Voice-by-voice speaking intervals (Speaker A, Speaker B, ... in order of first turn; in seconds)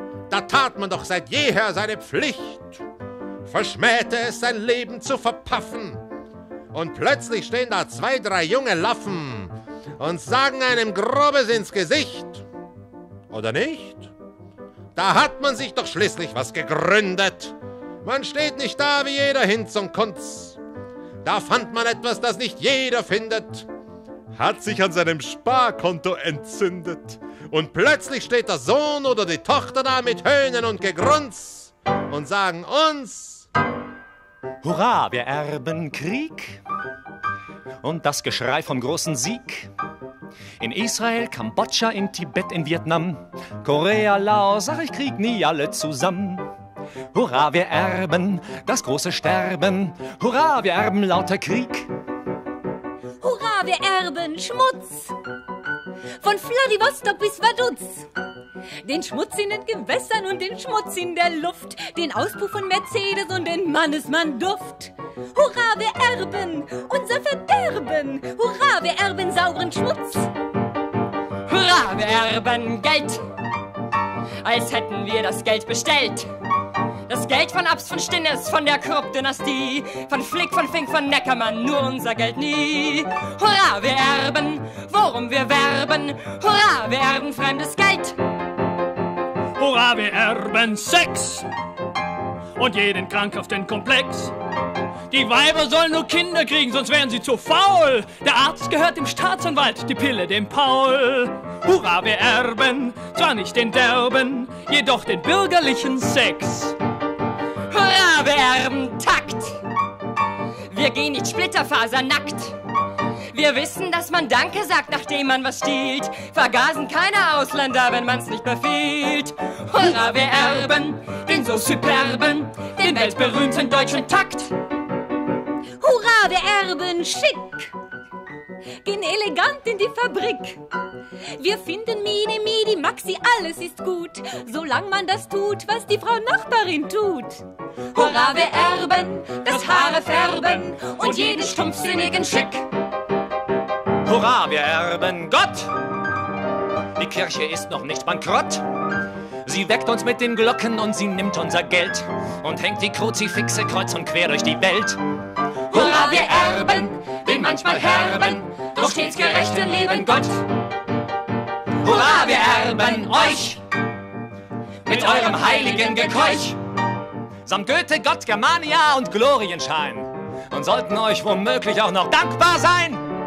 Speaker A: 0.3-2.8, 3.4-6.0, 6.7-12.4, 13.3-14.1, 14.9-20.6, 21.2-23.7, 24.3-33.5
Speaker B: 34.6-36.6, 37.8-39.7, 40.6-46.5, 47.1-51.9, 144.0-145.7, 147.0-148.6, 149.4-155.0, 161.8-163.6, 164.8-166.6, 167.4-173.1
Speaker C: 53.2-55.1, 56.2-58.1, 58.8-70.3, 125.8-127.7, 128.8-130.6, 131.4-137.4, 139.2-142.0
Speaker D: 71.5-73.2, 74.4-76.3, 77.1-88.2, 107.7-109.6, 110.7-112.6, 113.3-124.5, 137.9-142.6, 155.7-160.4, 161.8-163.1, 164.9-165.4
Speaker E: 89.6-91.5, 92.5-94.3, 95.1-106.7